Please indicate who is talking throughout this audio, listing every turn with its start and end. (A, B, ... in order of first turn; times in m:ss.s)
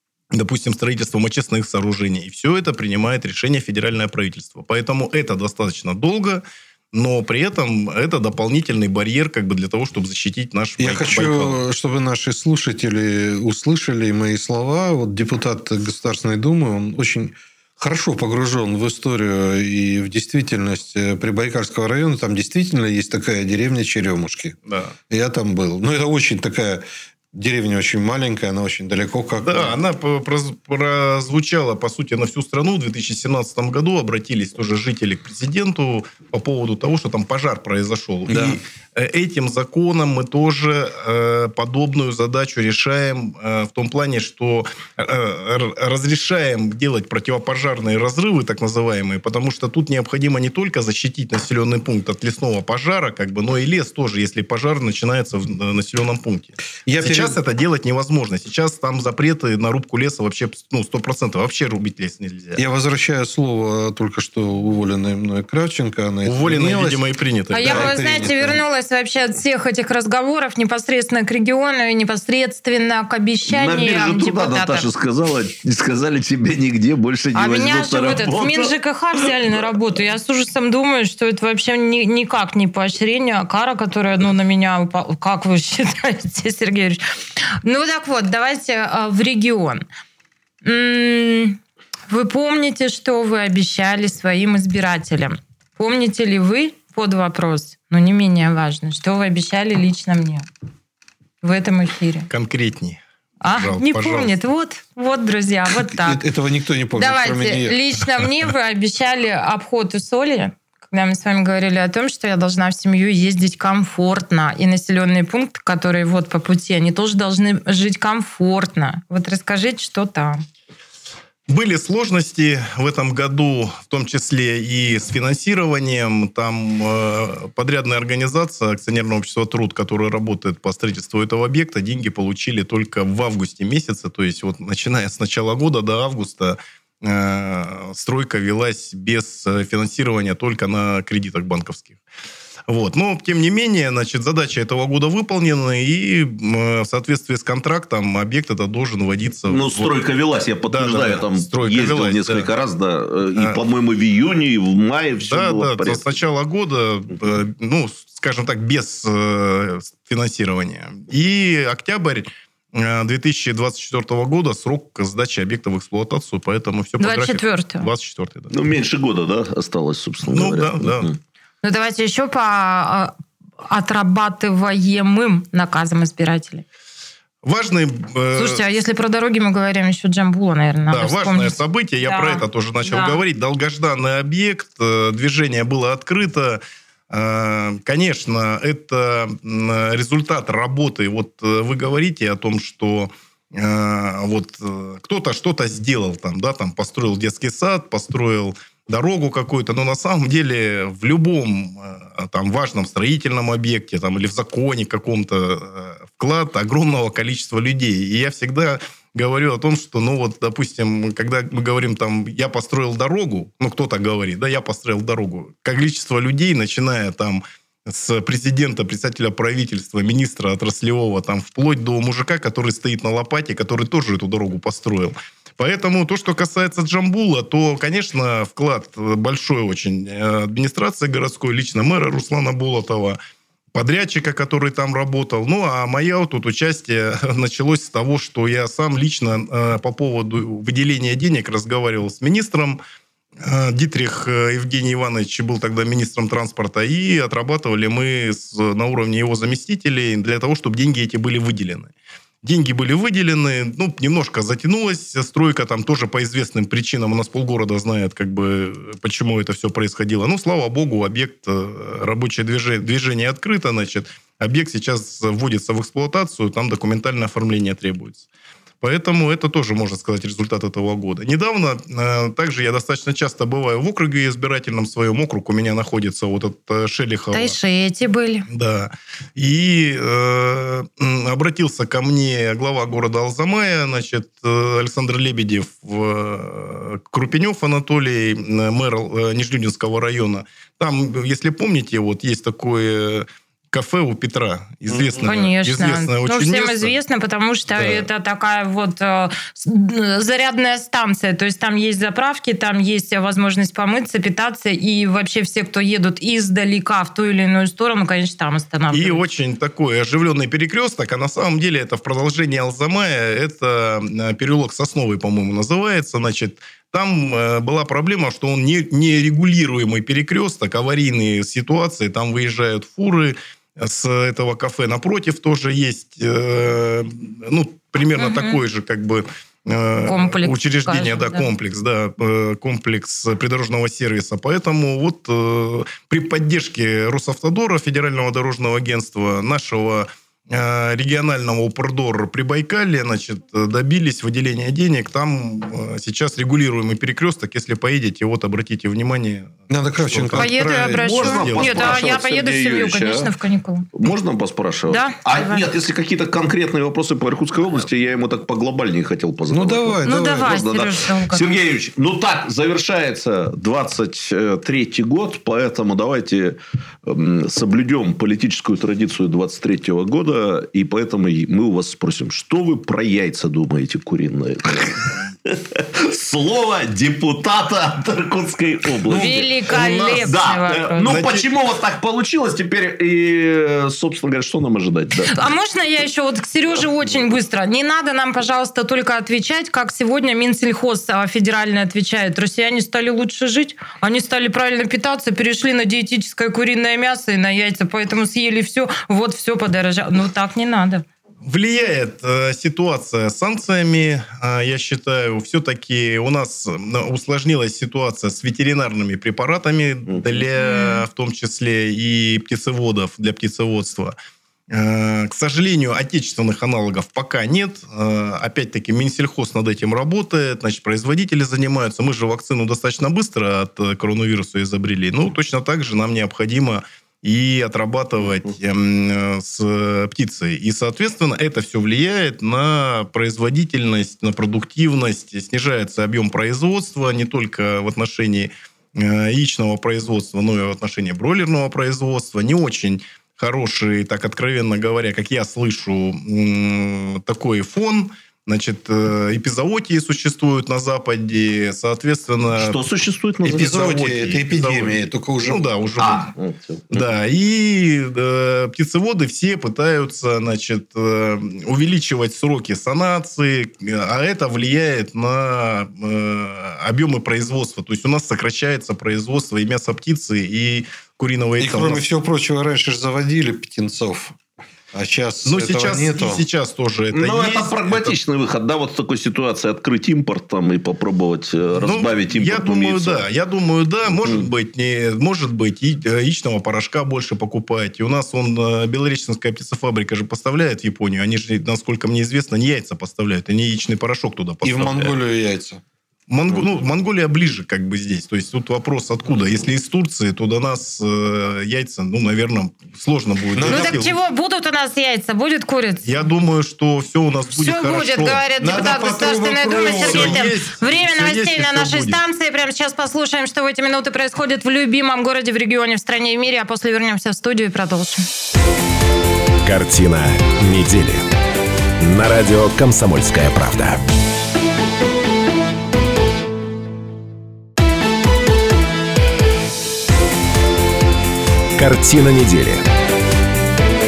0:00.3-0:11.6 A
0:10.8-0:24.6 B
0:24.7-0:24.9 A
0:25.1-0:29.7 B
0:29.4-1:02.6 A
0:38.3-0:38.6 B
0:56.8-0:57.4 B
1:02.6-1:07.0 B
1:06.2-1:08.0 A
1:07.5-1:14.9 C
1:07.6-1:08.6 B
1:13.5-1:18.7 D
1:17.3-1:27.0 C
1:27.6-1:29.8 C
1:30.6-1:40.5 C
1:41.4-1:42.3 C
1:42.3-1:44.3 A
1:43.4-1:46.2 C
1:45.8-1:47.8 B
1:47.0-2:00.4 C
2:01.5-2:22.0 A
2:22.7-2:29.9 A
2:29.5-2:36.1 D
2:30.7-2:32.5 A
2:35.2-2:48.5 A
2:47.0-2:47.9 C
2:48.5-2:51.2 D
2:50.3-2:51.1 A
2:51.6-2:56.6 C
2:57.4-2:58.6 A
2:58.3-3:03.2 C
3:00.9-3:53.2 A
3:53.7-4:02.8 A
4:03.4-4:28.3 A
4:28.8-4:37.6 A
4:37.3-4:38.5 C
4:38.5-4:56.9 A
4:55.2-5:09.2 C
4:57.8-4:58.0 A
5:08.9-5:50.5 A
5:28.2-5:28.6 C
5:30.0-5:31.5 C
5:49.7-5:51.2 B
5:50.4-5:53.9 C
5:51.0-5:53.3 D
5:51.2-5:52.0 A
5:53.9-6:25.4 D
5:54.9-5:55.6 C
5:59.5-6:00.6 B
6:00.0-6:01.5 C
6:19.1-6:19.4 B
6:19.1-6:21.2 C
6:19.7-6:20.3 A
6:21.0-6:21.5 A
6:25.3-6:41.0 C
6:41.4-6:54.1 A
6:50.1-6:50.4 D
6:50.6-6:51.0 C
6:54.7-7:32.8 A
7:32.5-7:33.7 D
7:33.4-7:36.3 A
7:33.4-7:35.6 B
7:36.0-7:37.0 D
7:36.9-7:52.0 A
7:51.6-7:54.4 B
7:54.9-7:56.4 B
7:55.4-7:58.2 A
7:57.1-8:03.2 D
8:01.8-8:15.1 A
8:04.1-8:04.5 D
8:14.6-8:15.8 B
8:16.3-8:24.2 A
8:23.6-8:24.0 B
8:23.6-8:26.1 C
8:26.0-8:28.4 A
8:27.5-8:38.2 C
8:28.6-8:30.5 B
8:29.7-8:32.2 A
8:39.6-8:41.3 E
8:42.0-8:44.0 E
8:51.8-8:52.8 E